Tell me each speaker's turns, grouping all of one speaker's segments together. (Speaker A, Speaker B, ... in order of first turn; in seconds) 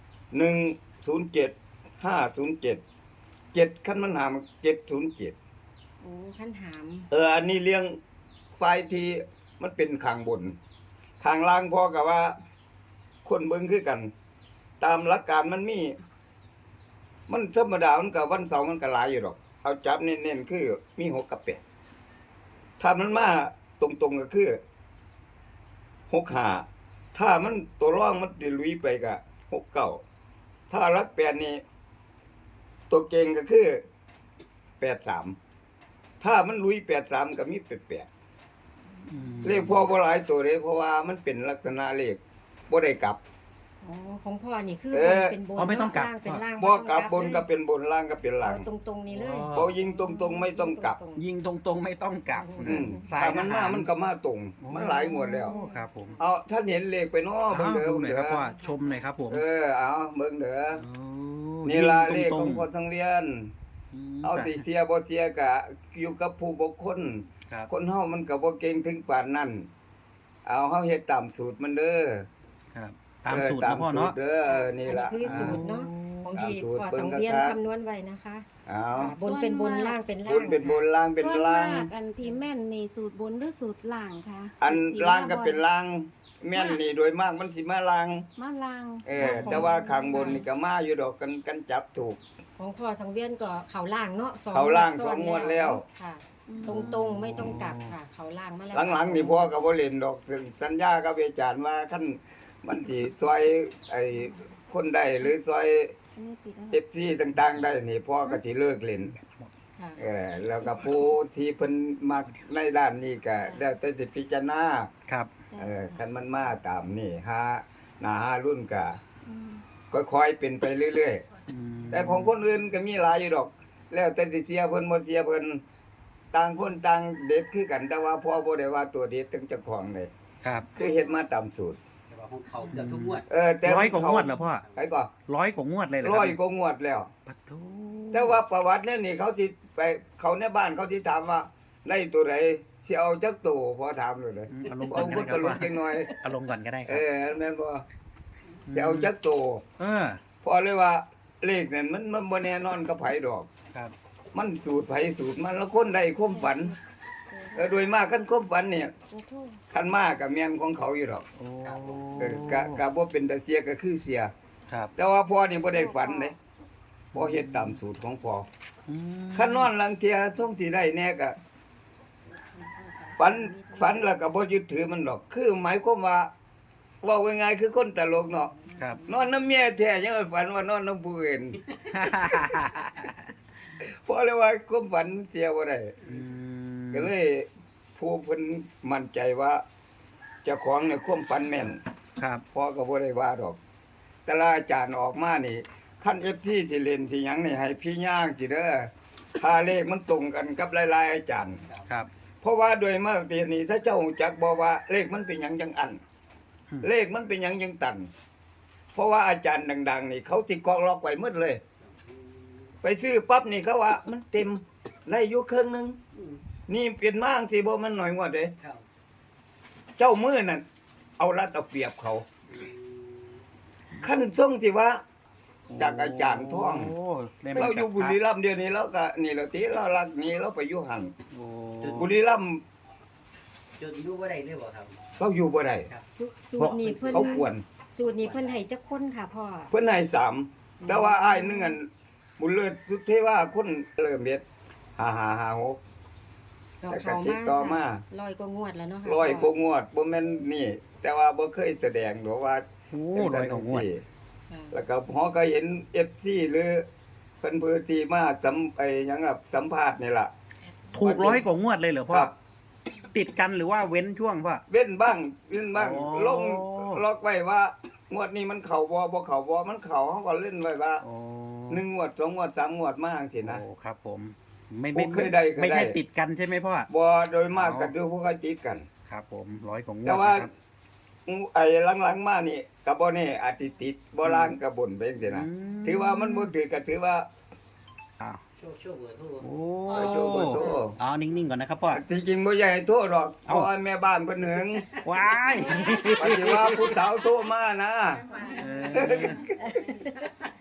Speaker A: 0.3-2.8, 3.5-5.3, 7.1-8.0, 8.5-10.6, 11.2-12.3, 13.2-14.1, 14.8-16.0, 17.3-21.6, 22.8-24.6, 26.1-30.0, 30.7-31.6, 32.9-33.8, 34.8-35.4, 36.2-38.1, 39.4-43.2, 44.9-45.4, 46.6-48.7, 49.5-51.0, 52.6-55.5, 56.2-58.5, 59.3-60.8, 61.6-63.5, 64.2-69.7, 70.5-72.3, 73.3-75.6, 76.3-77.6, 78.7-79.2, 80.2-81.9, 84.6-88.3, 89.0-92.2, 94.5-95.8, 98.7-106.0, 106.7-109.1, 110.0-114.9, 115.5-119.0, 119.9-121.2, 121.9-125.6, 126.3-130.1, 130.8-131.8, 133.3-135.1, 136.0-137.1, 138.1-146.1, 146.9-147.8, 148.7-149.6, 150.4-153.5, 154.3-156.7, 157.5-158.9, 159.7-161.3, 162.2-164.3, 165.0-166.4, 167.1-168.5, 169.3-171.4, 173.2-176.3, 177.0-178.5, 179.1-181.6, 183.7-186.0, 186.9-189.6, 190.4-191.8, 192.5-193.6, 194.3-201.6, 202.4-206.0, 206.8-208.1, 208.9-211.6, 212.8-216.0, 216.7-218.6, 220.0-220.6, 221.2-222.2, 224.0-225.0, 225.8-226.9, 227.6-231.1, 231.9-232.6, 235.2-235.9, 237.1-237.6, 239.7-241.9, 242.4-244.4, 245.0-245.8, 246.9-248.0, 249.1-254.0, 254.7-256.9, 257.4-260.3, 261.0-261.4, 264.7-271.1, 271.7-273.6, 274.9-276.0, 276.9-278.9, 280.1-280.5, 281.3-287.3, 289.9-291.0, 291.9-294.9, 296.1-298.2, 298.9-300.0
Speaker B: 6.0-7.1, 43.8-47.5, 48.4-51.2, 52.3-53.0, 55.4-56.3, 74.5-78.5, 79.0-80.8, 89.2-90.5, 92.6-99.6, 109.8-110.0, 156.0-156.8, 157.3-157.8, 159.1-159.6, 165.7-166.3, 172.6-174.1, 178.3-179.3, 236.1-239.7, 240.8-241.8, 246.8-249.6, 254.5-254.8, 295.6-296.0, 298.4-300.3
Speaker C: 39.1-39.9, 45.5-46.5, 49.1-49.7, 51.2-53.9, 54.6-56.2, 57.5-59.4, 60.8-62.7, 63.9-64.7, 72.7-74.2, 75.2-76.3, 89.2-89.7, 96.6-98.0, 109.2-109.5, 115.1-115.3, 121.5-122.3, 130.4-130.7, 132.7-134.6, 135.3-136.4, 137.3-138.4, 144.5-147.1, 148.7-149.1, 149.8-150.2, 161.4-162.8, 167.1-167.8, 168.9-169.7, 181.9-183.1, 186.1-187.1, 192.2-192.4, 225.7-228.2, 231.3-232.1, 252.9-253.9, 260.9-262.3, 263.0-264.6, 265.7-267.0, 271.0-271.9, 273.4-276.9, 277.5-277.9, 279.1-280.5, 284.2-284.6, 285.2-286.5, 289.4-292.0, 294.9-297.0, 298.6-299.4
Speaker D: 79.2-80.0, 81.2-85.6, 86.5-86.8, 88.4-89.1, 96.5-96.7, 106.2-106.8, 119.3-119.6, 298.3-299.0
Speaker E: 132.1-133.2, 161.7-161.9, 222.6-222.9, 231.8-232.1, 233.8-235.0, 236.7-237.3, 238.0-238.6, 288.6-289.4, 298.4-298.7